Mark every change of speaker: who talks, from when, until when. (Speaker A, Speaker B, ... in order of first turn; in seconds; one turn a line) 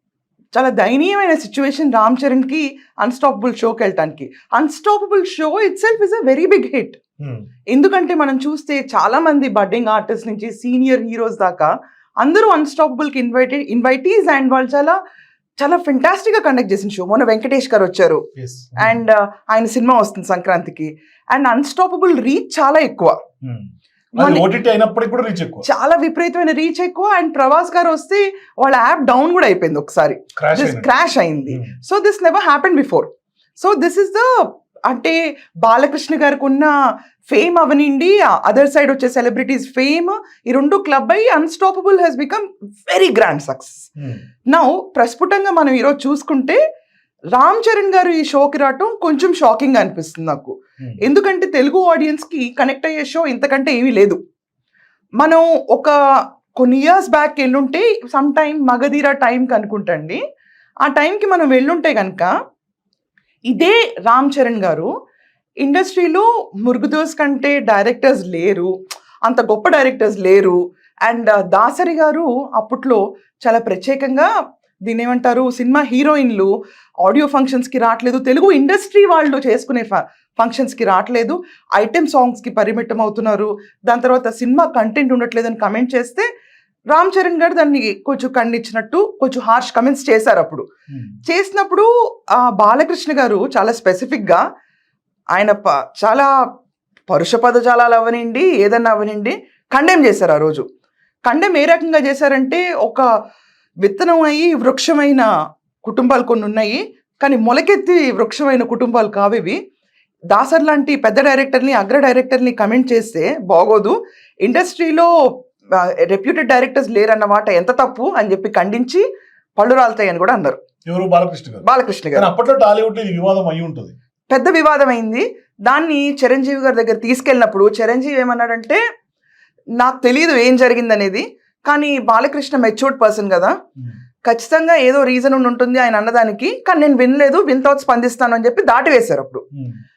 Speaker A: 0.6-7.0
Speaker A: 7.7-11.7
Speaker A: 12.2-15.0
Speaker A: 15.6-18.2
Speaker B: 18.4-19.0
Speaker A: 18.8-23.2
Speaker B: 23.4-25.6
Speaker A: 24.2-24.4
Speaker A: 25.7-34.3
Speaker B: 30.4-30.9
Speaker A: 34.9-36.7
Speaker A: 37.3-43.9
Speaker B: 44.0-44.2
Speaker A: 44.5-46.6
Speaker A: 47.4-54.2
Speaker A: 55.2-56.0
Speaker A: 56.6-60.2
Speaker A: 60.9-62.3
Speaker A: 63.5-64.9
Speaker A: 65.6-68.7
Speaker A: 69.3-74.3
Speaker A: 74.9-76.5
Speaker A: 77.0-86.3
Speaker A: 86.9-90.7
Speaker A: 91.3-91.9
Speaker A: 92.4-94.4
Speaker A: 95.3-96.3
Speaker A: 97.1-100.7
Speaker A: 101.3-103.1
Speaker A: 103.8-105.3
Speaker A: 105.8-109.6
Speaker A: 110.3-115.1
Speaker A: 115.8-119.0
Speaker A: 119.6-120.6
Speaker B: 120.9-121.6
Speaker A: 121.6-122.3
Speaker B: 122.2-123.9
Speaker A: 124.3-128.8
Speaker A: 129.8-133.5
Speaker A: 134.3-139.4
Speaker B: 139.5-139.8